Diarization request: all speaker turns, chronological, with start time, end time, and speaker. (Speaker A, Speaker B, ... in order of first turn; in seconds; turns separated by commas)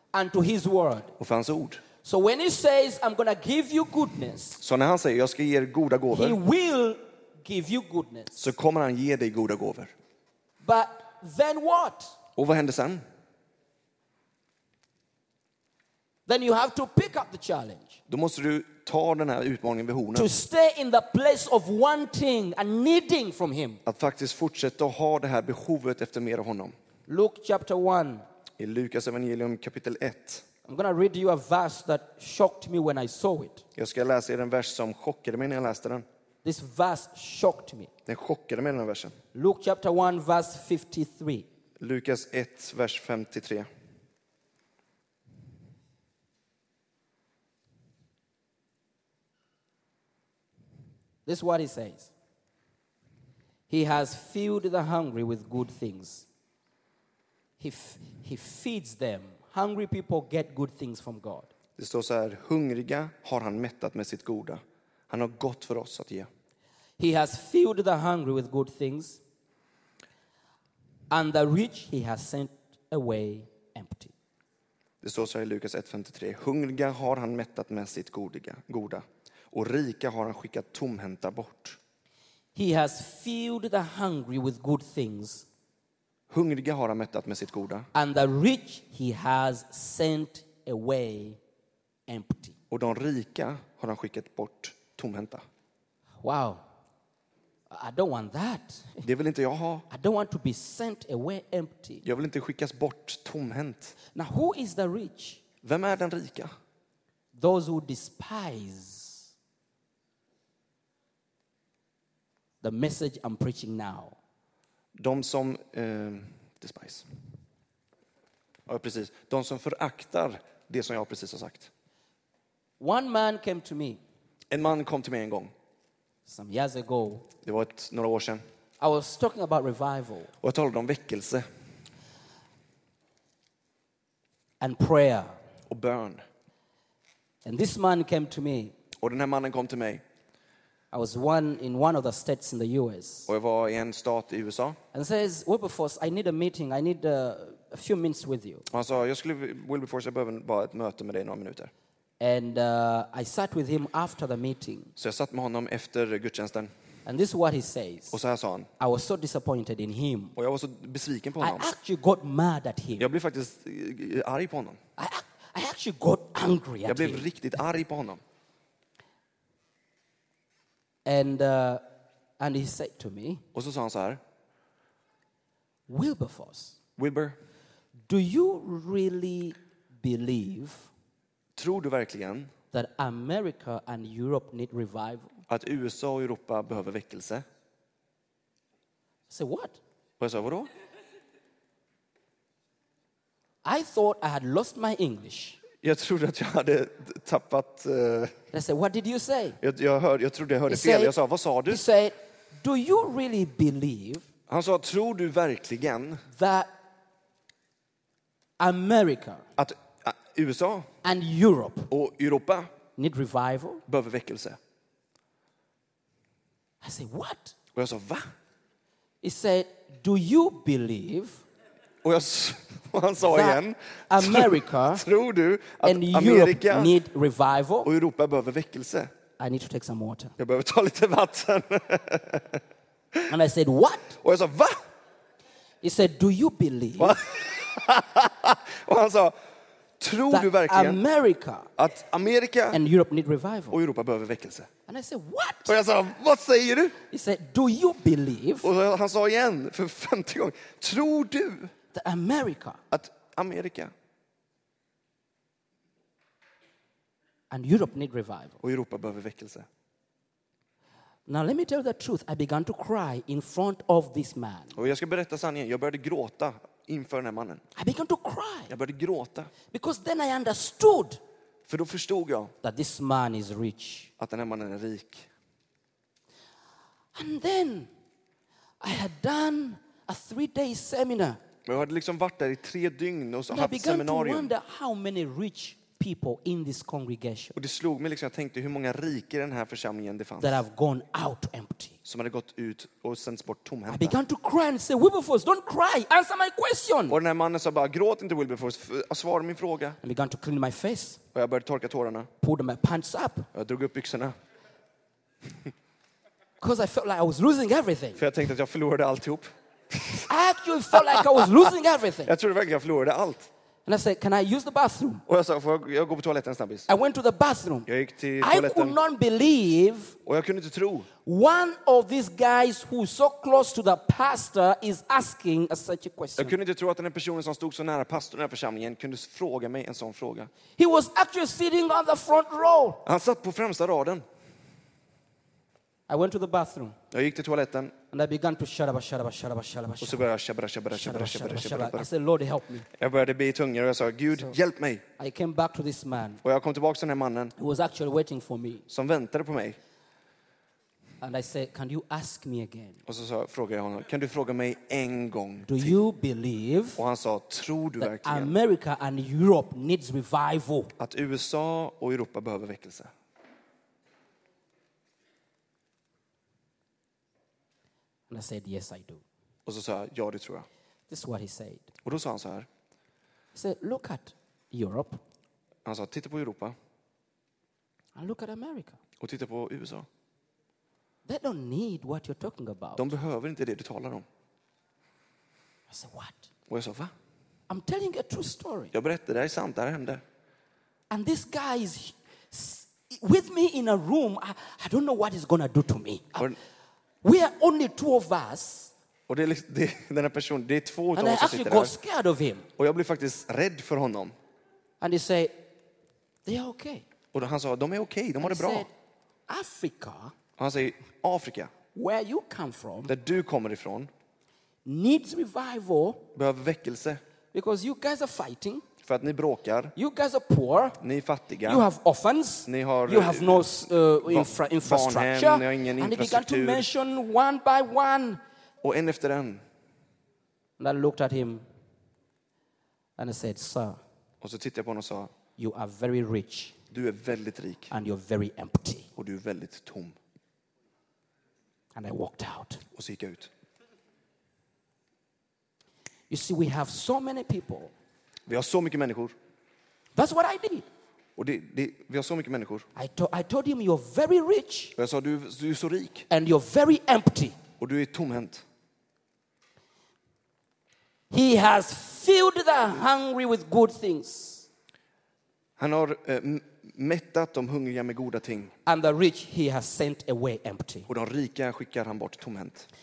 Speaker A: 0.1-1.1, Speaker B: 1.2-1.8, Speaker A: 2.0-4.6, Speaker B: 4.6-6.4, Speaker A: 6.1-8.4, Speaker B: 8.4-9.9, Speaker A: 10.6-12.1, Speaker B: 12.4-13.0, Speaker A: 16.3-18.0, Speaker B: 18.1-20.3, Speaker A: 20.1-23.8, Speaker B: 23.9-26.7, Speaker A: 27.1-28.2, Speaker B: 28.6-30.4, Speaker A: 30.7-33.6, Speaker B: 33.8-36.0, Speaker A: 36.4-37.9, Speaker B: 38.1-39.1, Speaker A: 39.3-41.5, Speaker B: 41.8-43.7, Speaker A: 51.3-52.1, Speaker A: 53.7-56.3, Speaker A: 57.6-61.5, Speaker B: 61.8-66.3, Speaker A: 67.0-69.2, Speaker A: 71.1-74.1, Speaker B: 75.0-81.8, Speaker A: 82.5-85.5, Speaker B: 86.3-87.9, Speaker A: 87.9-91.4, Speaker A: 92.1-92.6, Speaker B: 92.7-95.4, Speaker A: 96.2-96.6, Speaker A: 97.7-99.0, Speaker B: 99.0-99.8, Speaker A: 99.9-102.0, Speaker B: 102.0-104.0, Speaker A: 104.2-105.4, Speaker B: 105.6-106.5, Speaker A: 107.3-109.3, Speaker A: 112.6-114.2, Speaker B: 115.0-117.0, Speaker B: 118.7-121.7, Speaker A: 122.8-124.0, Speaker B: 124.5-125.5, Speaker A: 126.3-127.3, Speaker B: 127.5-128.4, Speaker A: 128.8-130.3, Speaker B: 130.4-131.4, Speaker A: 134.6-135.3, Speaker B: 135.7-136.2, Speaker A: 137.4-138.8, Speaker B: 139.0-140.0, Speaker A: 140.9-143.3, Speaker B: 143.3-144.8, Speaker A: 144.9-148.7, Speaker B: 148.7-151.7, Speaker A: 152.2-154.9, Speaker B: 155.0-156.7, Speaker A: 157.1-158.2, Speaker B: 158.1-158.7, Speaker A: 158.8-160.3, Speaker B: 160.4-161.7, Speaker A: 161.4-163.1, Speaker B: 163.0-164.8, Speaker A: 165.0-167.3, Speaker B: 166.9-168.2, Speaker A: 171.1-171.8, Speaker A: 172.4-173.4, Speaker B: 173.5-174.2, Speaker A: 175.9-176.8, Speaker B: 177.0-177.4, Speaker A: 178.1-180.9, Speaker B: 181.6-182.5, Speaker A: 182.7-185.3, Speaker B: 185.5-187.4, Speaker A: 189.3-189.8, Speaker B: 190.2-190.7, Speaker A: 193.6-195.6, Speaker B: 195.8-198.3, Speaker A: 198.5-199.6, Speaker B: 199.6-201.8, Speaker A: 200.7-201.1, Speaker A: 201.7-204.3, Speaker B: 204.5-206.2, Speaker A: 206.3-206.7, Speaker A: 208.6-209.4, Speaker B: 209.6-210.9, Speaker A: 211.0-211.9, Speaker B: 211.9-212.7, Speaker A: 213.0-213.8, Speaker B: 213.9-214.6, Speaker A: 216.8-217.6, Speaker B: 217.8-218.3, Speaker A: 219.2-221.4, Speaker B: 222.0-227.0, Speaker A: 223.2-225.0, Speaker A: 225.8-227.9, Speaker B: 227.8-229.1, Speaker A: 229.4-230.3, Speaker B: 230.4-232.6, Speaker A: 233.3-234.2, Speaker B: 234.2-234.8, Speaker A: 235.8-237.2, Speaker B: 237.0-239.3, Speaker B: 240.0-241.0, Speaker A: 240.3-241.7, Speaker B: 241.8-242.8, Speaker A: 242.7-243.8, Speaker B: 243.7-244.7, Speaker A: 244.9-245.7, Speaker B: 245.7-247.0, Speaker A: 247.1-248.7, Speaker B: 248.6-251.7, Speaker A: 251.9-252.8, Speaker B: 252.9-253.9, Speaker A: 257.5-258.6, Speaker B: 258.6-259.7, Speaker A: 261.3-264.7, Speaker B: 264.8-267.6, Speaker A: 267.8-268.7, Speaker B: 268.7-269.5, Speaker A: 269.7-271.2, Speaker B: 271.7-272.5, Speaker A: 272.6-274.1, Speaker B: 274.2-275.3, Speaker A: 277.1-277.9, Speaker A: 278.8-281.4, Speaker B: 281.7-284.5, Speaker A: 283.5-287.6, Speaker B: 287.6-290.6, Speaker A: 290.4-292.0, Speaker B: 292.1-294.2, Speaker A: 293.9-297.2, Speaker B: 297.1-300.0, Speaker A: 300.0-301.2, Speaker B: 301.3-302.3, Speaker A: 302.4-303.5, Speaker B: 303.5-304.4, Speaker A: 306.6-308.2, Speaker B: 308.2-310.3, Speaker A: 310.3-312.3, Speaker B: 310.9-311.5, Speaker B: 312.2-313.5, Speaker A: 313.9-315.2, Speaker B: 315.3-316.9, Speaker A: 316.9-317.9, Speaker B: 317.9-319.0, Speaker A: 318.4-320.1, Speaker B: 320.2-321.1, Speaker A: 321.2-326.5, Speaker B: 326.4-330.5, Speaker A: 330.8-333.0, Speaker B: 333.1-334.2, Speaker A: 336.1-336.9, Speaker B: 337.1-337.9, Speaker A: 338.1-340.2, Speaker B: 340.0-342.1, Speaker A: 340.9-342.9, Speaker B: 342.9-345.0, Speaker A: 345.2-346.4, Speaker B: 346.4-347.5, Speaker A: 347.6-348.8, Speaker B: 348.9-349.8, Speaker A: 351.2-353.0, Speaker B: 353.1-356.0, Speaker A: 355.7-357.0, Speaker B: 357.0-358.5, Speaker A: 358.0-360.9, Speaker B: 361.0-363.1, Speaker A: 368.3-369.2, Speaker B: 369.7-370.7, Speaker A: 371.1-371.9, Speaker B: 372.0-372.7, Speaker A: 373.5-375.2, Speaker B: 375.9-376.8, Speaker A: 378.2-379.0, Speaker B: 379.2-380.1, Speaker A: 381.3-383.1, Speaker B: 383.0-384.3, Speaker A: 385.9-386.5, Speaker B: 386.7-387.1, Speaker A: 387.7-388.9, Speaker B: 388.9-390.2, Speaker A: 391.1-396.5, Speaker A: 397.2-398.9, Speaker B: 399.3-401.9, Speaker A: 401.1-402.7, Speaker B: 402.8-404.4, Speaker A: 405.0-405.6, Speaker A: 406.5-407.1, Speaker B: 407.3-408.9, Speaker A: 408.4-408.9, Speaker A: 409.5-410.3, Speaker B: 410.6-411.7, Speaker A: 411.9-413.1, Speaker B: 413.1-414.1, Speaker A: 414.9-416.2, Speaker B: 416.3-417.2, Speaker A: 417.5-418.9, Speaker B: 419.0-419.9, Speaker A: 420.0-421.0, Speaker B: 421.0-421.9, Speaker A: 421.6-428.4, Speaker B: 422.7-426.9, Speaker B: 428.8-429.6, Speaker A: 430.8-431.6, Speaker A: 433.2-434.0, Speaker B: 434.4-435.3, Speaker A: 435.6-436.8, Speaker B: 436.9-437.9, Speaker A: 437.9-439.1, Speaker B: 439.2-440.2, Speaker A: 441.9-442.8, Speaker B: 442.9-443.5, Speaker A: 446.3-447.9, Speaker B: 448.5-449.4, Speaker A: 450.2-450.9, Speaker B: 451.4-452.9, Speaker A: 453.0-454.9, Speaker B: 454.9-456.3, Speaker A: 456.3-457.6, Speaker B: 457.8-458.6, Speaker A: 461.3-464.7, Speaker B: 465.8-468.7, Speaker A: 468.9-471.1, Speaker B: 471.1-472.9